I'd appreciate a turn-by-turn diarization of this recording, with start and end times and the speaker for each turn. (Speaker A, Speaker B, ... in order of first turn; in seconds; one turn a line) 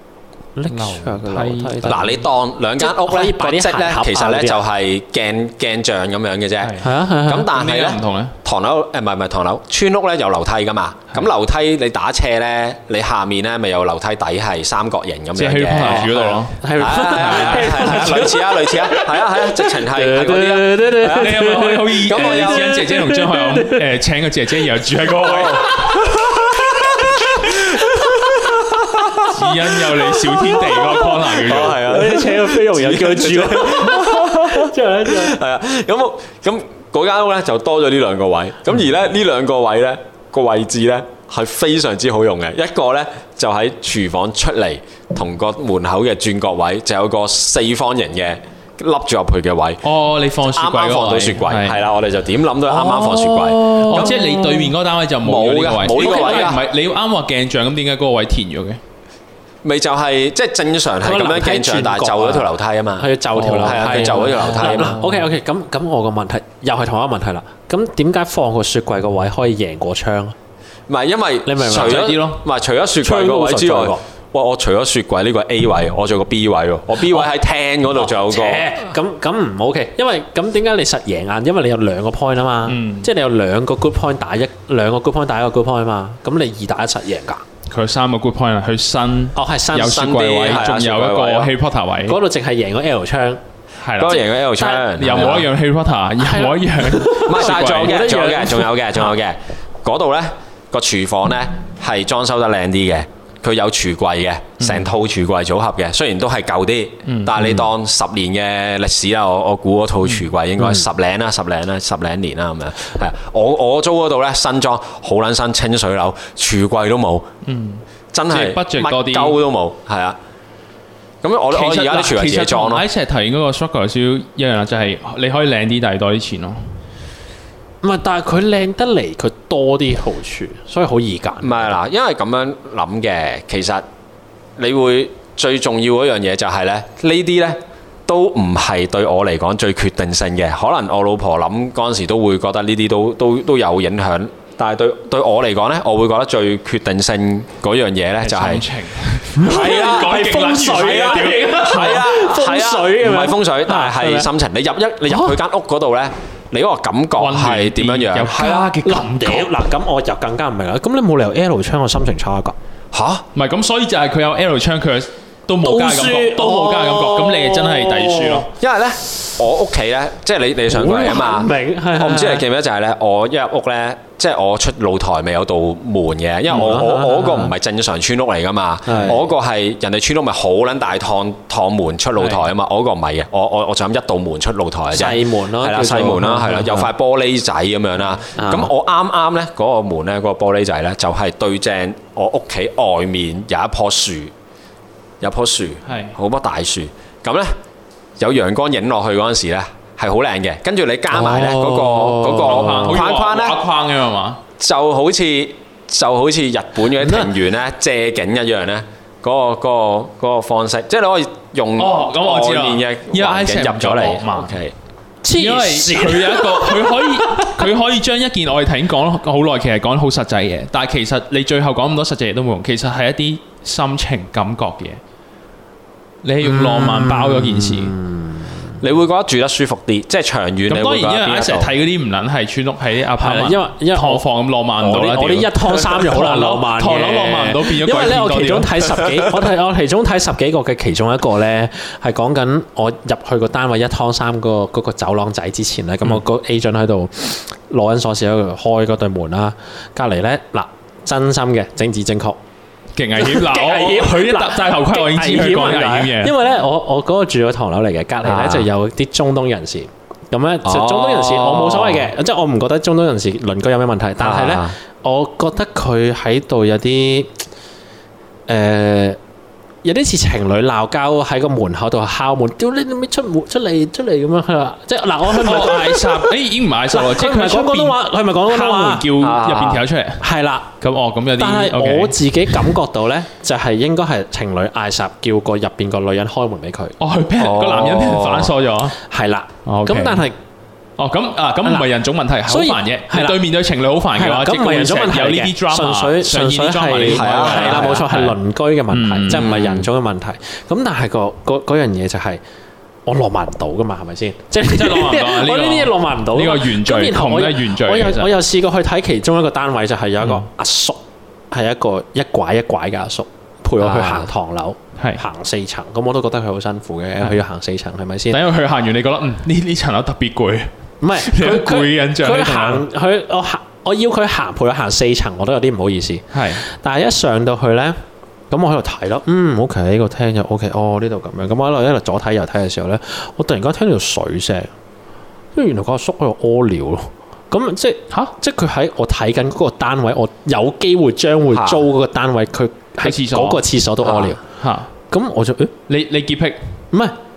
Speaker A: 0.6-2.2
Speaker B: 0.7-2.0
Speaker C: 1.9-16.3
Speaker A: 2.8-4.6
Speaker B: 6.6-8.3
Speaker A: 6.8-7.5
Speaker B: 15.4-18.3
Speaker A: 15.8-23.8
Speaker C: 16.8-21.5
Speaker B: 21.0-25.8
Speaker C: 22.0-22.8
Speaker C: 25.2-30.0
Speaker B: 29.3-31.8
Speaker A: 30.8-31.0
Speaker C: 31.3-49.8
Speaker A: 31.6-35.4
Speaker B: 49.8-51.8
Speaker C: 50.5-54.1
Speaker A: 52.7-54.7
Speaker B: 53.7-58.8
Speaker C: 55.2-56.7
Speaker A: 55.9-56.5
Speaker C: 59.6-65.0
Speaker A: 61.0-70.4
Speaker B: 63.4-65.3
Speaker C: 70.9-78.7
Speaker A: 71.5-72.2
Speaker B: 71.7-72.4
Speaker A: 73.0-74.0
Speaker A: 77.9-87.4
Speaker B: 82.7-83.1
Speaker B: 87.7-92.2
Speaker A: 89.4-90.1
Speaker C: 89.7-91.5
Speaker A: 92.1-93.4
Speaker B: 93.8-94.2
Speaker C: 94.0-95.5
Speaker A: 94.5-95.5
Speaker B: 95.0-98.1
Speaker A: 96.2-99.0
Speaker C: 97.2-117.3
Speaker B: 104.6-104.9
Speaker B: 107.1-107.6
Speaker B: 117.5-119.4
Speaker C: 118.1-120.2
Speaker C: 121.2-122.9
Speaker B: 121.5-126.7
Speaker A: 127.8-131.8
Speaker C: 131.4-133.8
Speaker C: 134.6-148.7
Speaker B: 148.2-152.1
Speaker A: 149.4-154.3
Speaker C: 149.4-150.2
Speaker C: 151.7-158.6
Speaker A: 155.1-155.4
Speaker B: 157.2-159.5
Speaker A: 158.4-162.6
Speaker C: 162.9-163.2
Speaker B: 163.3-168.5
Speaker A: 165.6-168.5
Speaker C: 168.6-194.3
Speaker A: 170.7-172.4
Speaker A: 176.5-177.5
Speaker A: 178.9-179.2
Speaker A: 184.9-186.9
Speaker A: 188.4-188.7
Speaker C: 195.2-197.6
Speaker B: 195.9-196.2
Speaker C: 198.2-203.6
Speaker A: 201.1-203.0
Speaker B: 202.3-204.4
Speaker C: 204.6-214.8
Speaker A: 207.0-207.3
Speaker B: 211.8-214.6
Speaker A: 215.2-217.5
Speaker B: 215.3-225.0
Speaker B: 226.2-228.0
Speaker A: 226.4-228.7
Speaker C: 228.8-231.7
Speaker B: 230.7-238.8
Speaker A: 233.2-234.2
Speaker A: 234.8-252.4
Speaker B: 253.0-256.3
Speaker A: 253.2-267.3
Speaker C: 258.2-258.7
Speaker C: 260.6-262.1
Speaker C: 264.2-264.8
Speaker A: 268.5-269.2
Speaker A: 269.8-276.3
Speaker B: 275.3-280.2
Speaker A: 276.9-279.1
Speaker C: 279.2-279.9
Speaker A: 280.2-280.7
Speaker B: 280.8-282.2
Speaker A: 281.4-287.0
Speaker B: 287.0-289.0
Speaker C: 287.4-288.5
Speaker A: 289.0-290.4
Speaker B: 289.7-290.3
Speaker B: 291.0-298.4
Speaker A: 292.5-293.4
Speaker A: 294.2-302.4
Speaker C: 297.1-298.1
Speaker B: 298.9-299.5
Speaker C: 299.3-299.9
Speaker A: 303.1-311.0
Speaker B: 304.6-308.3
Speaker A: 311.5-318.4
Speaker B: 313.8-314.3
Speaker B: 315.0-315.2
Speaker B: 318.3-320.7
Speaker A: 321.0-328.0
Speaker B: 321.2-322.9
Speaker B: 326.3-326.6
Speaker A: 328.5-334.7
Speaker A: 335.6-344.4
Speaker C: 341.5-341.8
Speaker B: 343.0-344.9
Speaker A: 345.1-345.7
Speaker B: 345.9-346.8